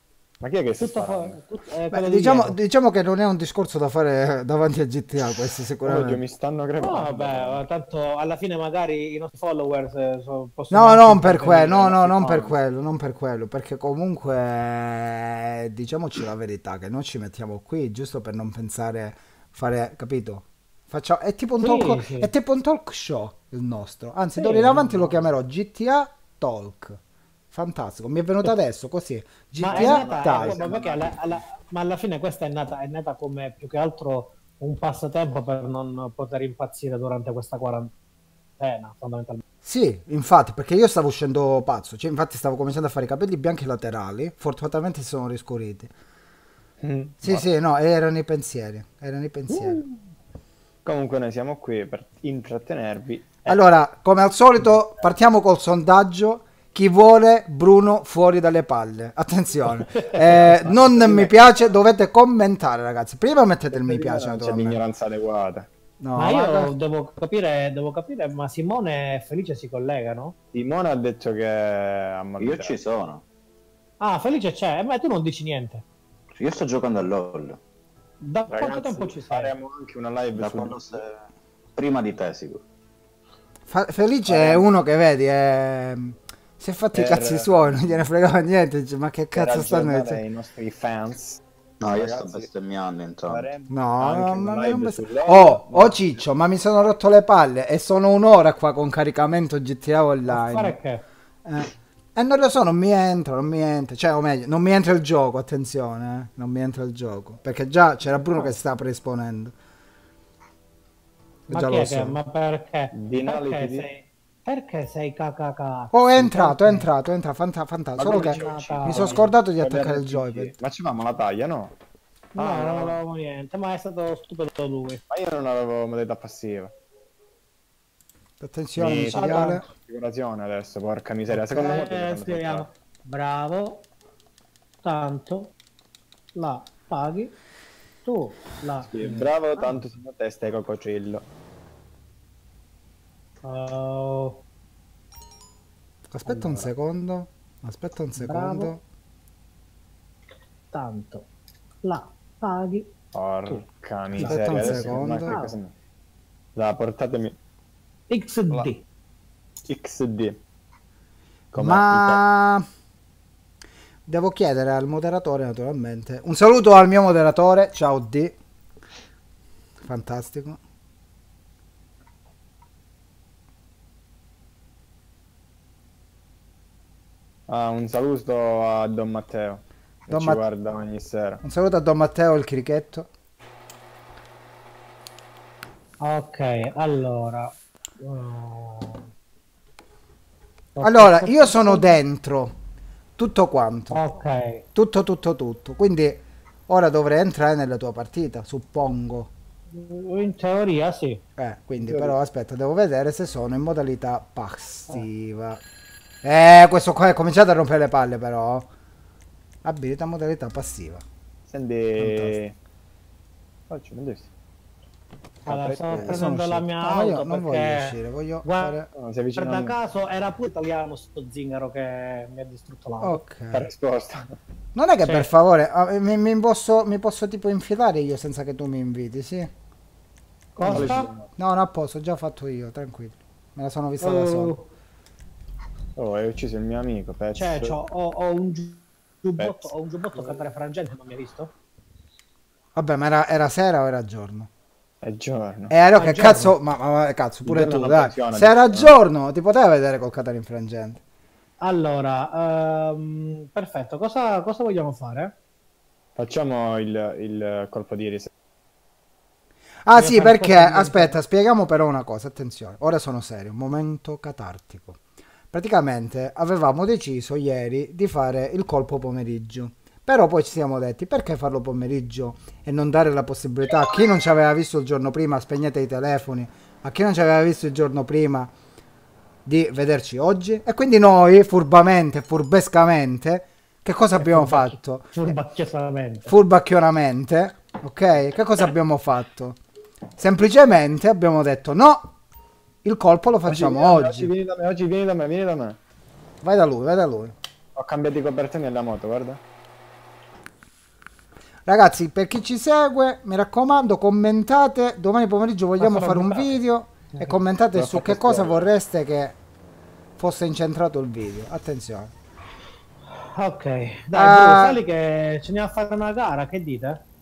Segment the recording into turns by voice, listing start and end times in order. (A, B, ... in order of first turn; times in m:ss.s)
0:00.4-0:01.4 A
0:00.8-0:02.6 B
0:01.9-0:06.2 C
0:05.8-0:07.6 A
0:06.8-0:12.5 B
0:10.7-0:27.0 C
0:21.6-0:22.3 B
0:24.3-0:25.2 B
0:27.5-0:30.8 C
0:29.6-0:37.9 B
0:29.6-0:31.0 A
0:38.6-0:39.4 B
0:39.6-0:45.9 C
0:46.8-0:47.5 A
0:47.2-0:49.8 C
0:49.5-0:50.0 A
0:50.8-0:53.6 A
0:53.4-1:04.8 C
1:00.0-1:00.5 B
1:00.8-1:01.3 A
1:03.7-1:05.7 A
1:06.0-1:06.7 C
1:06.2-1:10.3 B
1:10.5-1:12.8 A
1:12.4-1:13.2 D
1:14.0-1:15.8 B
1:16.4-1:17.6 D
1:18.2-1:19.5 B
1:18.5-1:20.8 A
1:20.3-1:21.2 D
1:21.7-1:22.6 D
1:23.7-1:30.2 C
1:24.2-1:24.7 A
1:26.9-1:28.0 A
1:29.3-1:32.5 A
1:31.8-1:33.5 D
1:33.3-1:36.2 A
1:33.7-1:40.8 C
1:40.3-1:41.0 B
1:41.4-1:49.5 C
1:51.5-1:52.2 C
1:51.5-1:56.9 B
1:52.9-1:53.9 A
1:55.9-2:00.5 C
1:58.0-2:01.7 A
1:58.0-1:59.3 B
2:02.3-2:05.0 B
2:02.4-2:03.0 A
2:05.1-2:06.7 A
2:08.4-2:09.6 C
2:08.8-2:12.7 A
2:09.1-2:09.7 B
2:11.3-2:13.8 B
2:14.8-2:15.5 B
2:16.3-2:17.3 B
2:18.0-2:19.8 B
2:18.9-2:21.2 A
2:23.4-2:24.4 B
2:26.1-2:28.8 C
2:26.2-2:26.7 B
2:28.2-2:28.7 B
2:30.7-2:31.3 B
2:31.8-2:32.9 B
2:33.1-2:35.7 A
2:34.2-2:35.3 C
2:34.2-2:35.6 B
2:36.5-2:37.4 A
2:38.1-2:38.8 B
2:39.7-2:40.4 A
2:41.5-2:42.2 A
2:41.6-2:42.6 C
2:44.1-2:48.3 C
2:49.8-2:50.6 C
2:57.5-3:01.4 A
3:00.1-3:00.4 C
3:01.4-3:03.1 C
3:06.0-3:09.1 B
3:10.7-3:12.0 B
3:10.8-3:12.6 C
3:13.2-3:14.0 C
3:13.9-3:14.6 B
3:14.7-3:19.3 C
3:19.7-3:21.2 B
3:21.4-3:25.6 C
3:21.8-3:22.2 A
3:26.2-3:28.7 C
3:29.6-3:31.0 C
3:31.5-3:32.5 A
3:32.0-3:32.4 C
3:33.7-3:34.3 A
3:35.4-3:36.2 A
3:35.4-3:38.8 B
3:35.9-3:38.9 C
3:38.9-3:39.7 A
3:39.4-3:43.2 B
3:43.0-3:43.7 C
3:43.5-3:44.3 A
3:44.7-3:49.5 C
3:45.0-3:45.3 B
3:50.6-3:51.1 B
3:50.6-3:54.5 C
3:50.6-3:51.3 A
3:54.0-3:54.7 B
3:56.0-3:57.8 A
3:57.4-4:01.5 B
3:59.4-4:00.4 A
4:02.7-4:04.5 C
4:05.0-4:05.7 A
4:05.7-4:11.0 C
4:05.9-4:06.6 B
4:07.4-4:08.9 A
4:11.6-4:15.4 B
4:16.2-4:18.3 A
4:19.8-4:25.0 C
4:19.9-4:21.2 B
4:25.5-4:38.5 C
4:39.4-4:45.4 C
4:44.2-4:46.3 B
4:46.2-4:49.6 C
4:50.2-4:52.1 C
4:52.8-4:54.3 C
4:53.4-4:55.8 A
4:56.4-4:57.3 C
4:57.8-4:59.4 A
5:01.6-5:09.4 C
5:05.8-5:06.6 B
5:07.7-5:08.7 A
5:10.2-5:12.1 C
5:13.1-5:17.0 B
5:14.1-5:14.8 C